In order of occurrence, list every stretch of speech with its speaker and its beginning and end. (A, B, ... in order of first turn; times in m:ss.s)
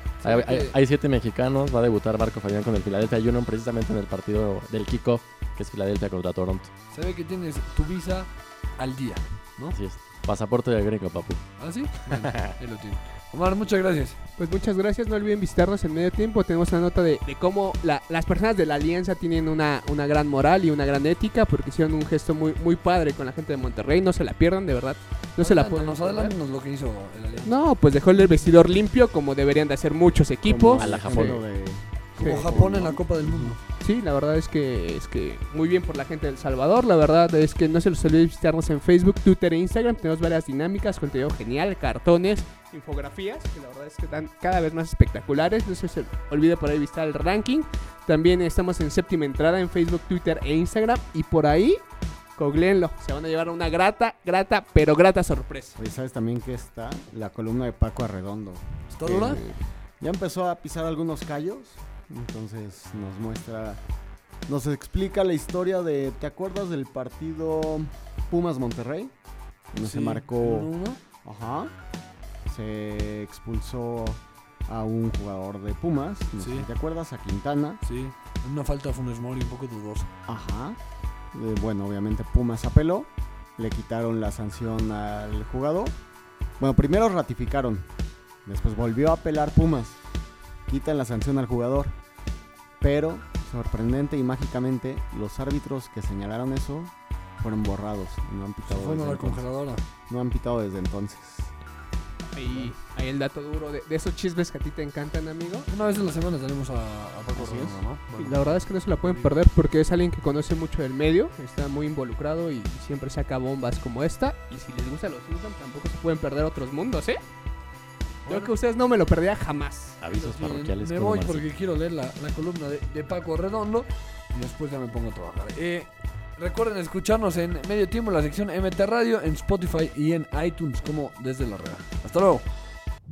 0:00.2-0:00.8 A
0:00.2-0:06.7 B
0:06.9-0:09.8 A
0:09.7-0:11.4 B
0:11.6-0:14.2 A
0:12.1-0:12.5 B
0:14.4-0:26.4 C
0:25.4-0:27.6 A
0:27.4-0:31.2 C
0:30.4-0:33.6 D
0:30.8-0:31.4 B
0:32.2-0:33.6 A
0:32.2-0:32.7 C
0:33.8-0:51.8 C
0:52.4-0:55.8 C
0:55.8-1:03.8 D
0:58.9-0:59.4 A
0:59.2-0:59.5 C
1:04.5-1:09.1 D
1:09.7-1:10.7 D
1:09.8-1:11.0 A
1:11.2-1:11.7 D
1:12.4-1:17.8 D
1:16.4-1:16.7 A
1:17.8-1:20.1 A
1:20.3-1:20.8 D
1:21.3-1:26.0 D
1:26.6-1:27.9 D
1:28.4-1:30.0 D
1:30.7-1:32.0 D
1:32.8-1:39.4 D
1:38.6-1:39.8 A
1:40.1-1:41.5 D
1:42.4-1:45.7 C
1:45.7-1:49.4 A
1:47.3-1:47.8 D
1:48.2-1:57.2 C
1:58.2-1:58.5 A
1:58.2-2:00.0 C
2:00.0-2:01.4 B
2:00.1-2:12.5 A